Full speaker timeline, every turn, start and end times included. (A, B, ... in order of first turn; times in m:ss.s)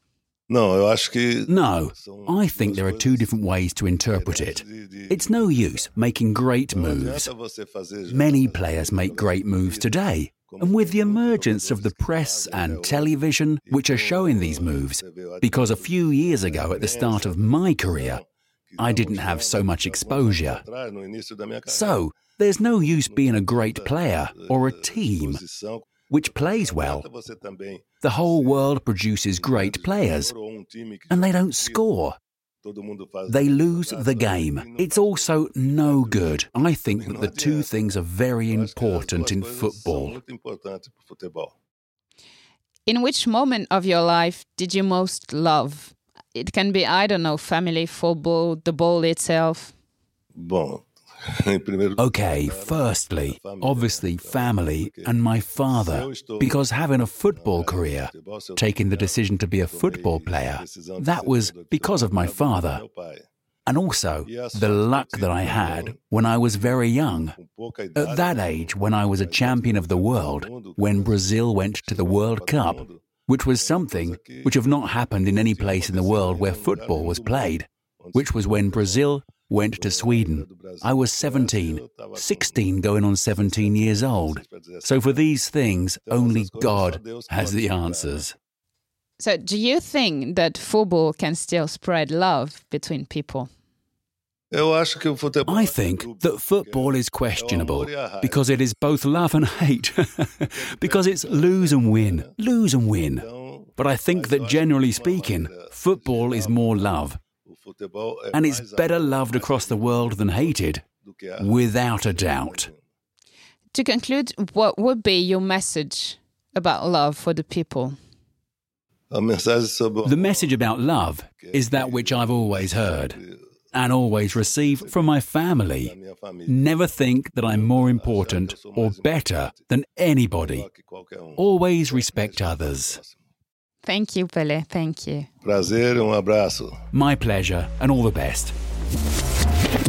0:00.5-0:03.3 A
0:01.5-0:07.3 B
0:04.1-0:05.8 A
0:06.7-0:13.1 A
0:08.1-0:18.2 B
0:13.7-0:22.1 A
0:18.8-0:20.6 B
0:21.7-0:25.4 B
0:22.8-0:25.8 A
0:26.1-0:27.0 B
0:26.6-0:28.7 A
0:28.0-0:30.3 B
0:29.4-0:31.8 A
0:31.1-0:32.2 B
0:32.6-0:37.9 A
0:33.3-0:40.2 B
0:38.5-0:41.5 A
0:42.8-0:49.7 C
0:50.4-0:55.1 A
0:52.0-1:02.8 B
0:55.7-0:56.6 A
0:57.3-1:03.2 A
1:03.7-1:07.3 B
1:04.2-1:06.0 A
1:07.4-1:13.0 A
1:08.0-1:28.3 B
1:13.6-1:14.6 A
1:15.4-1:19.0 A
1:19.7-1:22.7 A
1:23.4-1:25.2 A
1:26.1-1:28.2 A
1:29.2-1:33.5 C
1:34.5-1:38.6 A
1:35.4-1:43.2 B
1:40.5-1:42.3 A
1:43.2-1:52.8 A
1:43.8-1:47.2 B
1:48.3-1:50.9 B
1:51.4-1:52.7 B
1:53.7-1:58.0 C
1:59.1-2:00.6 A
2:00.0-2:03.2 B
2:01.4-2:03.4 A
2:03.7-2:05.9 B
2:04.3-2:05.0 A
2:05.8-2:06.7 A
2:06.5-2:10.6 B
2:07.4-2:09.6 A
2:10.4-2:13.1 A
2:11.4-2:13.0 B
2:13.8-2:15.3 C
2:15.4-2:16.8 A
2:16.9-2:18.5 B